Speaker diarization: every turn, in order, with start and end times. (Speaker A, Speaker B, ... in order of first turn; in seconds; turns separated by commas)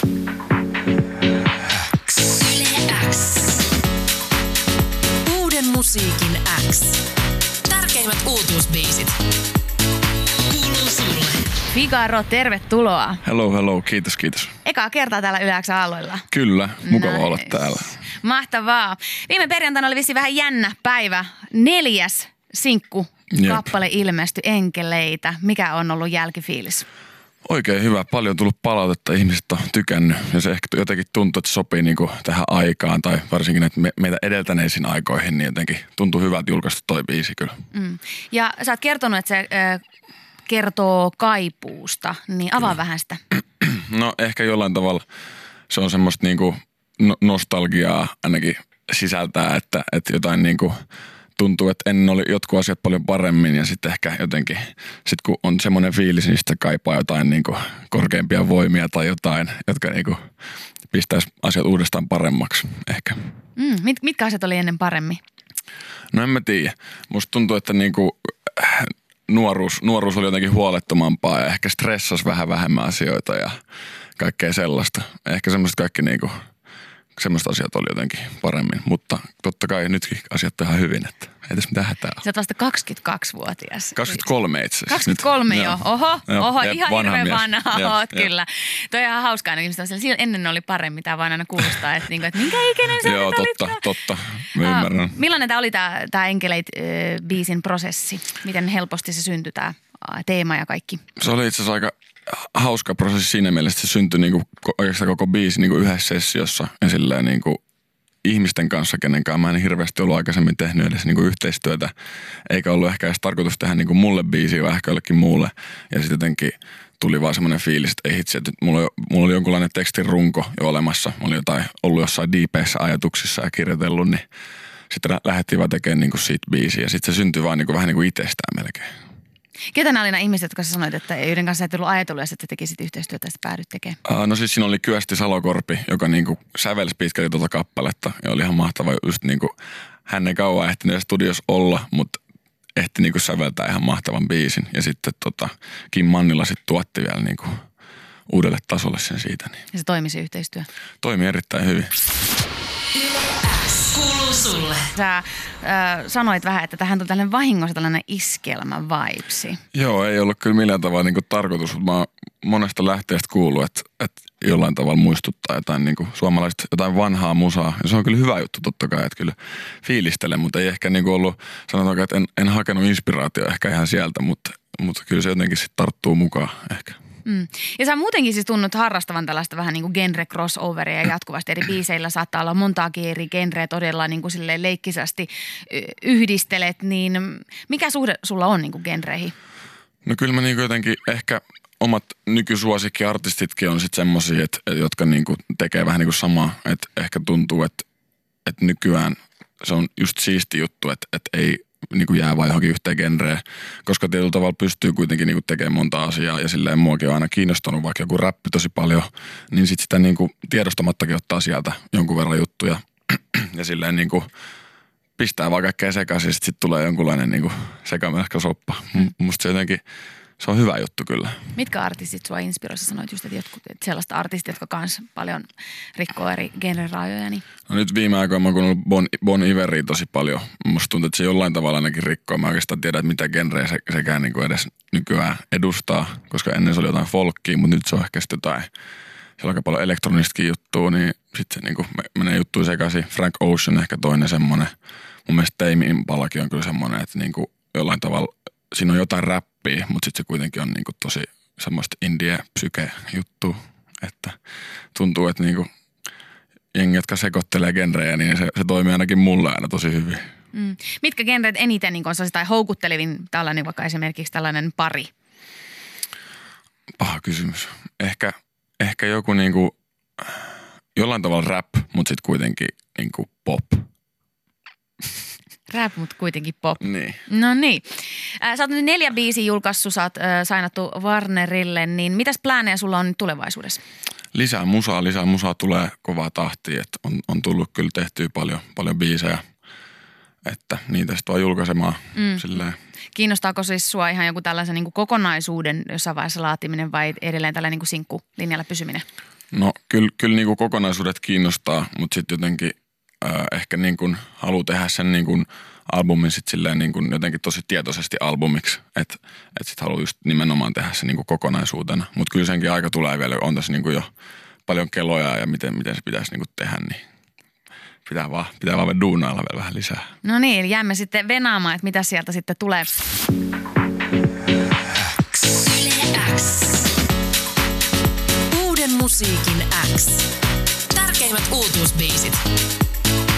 Speaker A: 2.2-3.6, Speaker A: 5.2-7.0, Speaker A: 7.7-9.2, Speaker A: 10.5-11.5, Speaker B: 11.7-13.2, Speaker C: 13.2-14.5, Speaker B: 14.6-16.3, Speaker C: 16.3-18.0, Speaker B: 16.8-26.9, Speaker C: 23.3-23.6, Speaker C: 27.4-37.6, Speaker B: 37.7-39.8, Speaker B: 40.5-43.2, Speaker C: 43.6-45.0, Speaker C: 45.7-50.8, Speaker C: 51.4-60.2, Speaker C: 60.9-63.3, Speaker B: 63.6-65.2, Speaker C: 66.1-73.6, Speaker C: 74.2-76.4, Speaker C: 77.2-82.2, Speaker B: 82.2-84.2, Speaker C: 84.0-88.3, Speaker B: 84.9-93.9, Speaker C: 93.0-95.2, Speaker B: 94.6-101.0, Speaker C: 101.2-107.6, Speaker C: 108.2-111.9, Speaker C: 112.5-124.2, Speaker C: 124.9-128.9, Speaker B: 129.7-134.0, Speaker C: 134.1-139.5, Speaker C: 140.1-142.2, Speaker C: 142.8-147.6, Speaker C: 148.3-149.6, Speaker B: 149.7-150.7, Speaker C: 151.0-151.9, Speaker A: 153.0-154.9, Speaker B: 154.9-159.6, Speaker C: 159.7-177.0, Speaker B: 177.2-189.3, Speaker C: 190.0-197.8, Speaker C: 198.4-214.3, Speaker C: 215.2-219.8, Speaker C: 220.4-221.4, Speaker B: 221.6-227.4, Speaker C: 227.7-238.7, Speaker C: 239.4-244.7, Speaker C: 245.3-254.4, Speaker C: 254.9-255.7, Speaker C: 256.7-260.3, Speaker B: 260.5-265.1, Speaker C: 267.0-270.4, Speaker C: 270.9-273.9, Speaker B: 275.7-283.8, Speaker C: 276.8-277.2, Speaker C: 284.3-289.4, Speaker C: 290.4-292.8, Speaker B: 292.2-292.5, Speaker B: 293.1-299.1, Speaker C: 299.5-314.1, Speaker C: 314.7-317.0, Speaker C: 318.1-320.1, Speaker B: 320.2-322.9, Speaker A: 325.4-326.9, Speaker A: 328.5-330.3, Speaker A: 330.9-332.4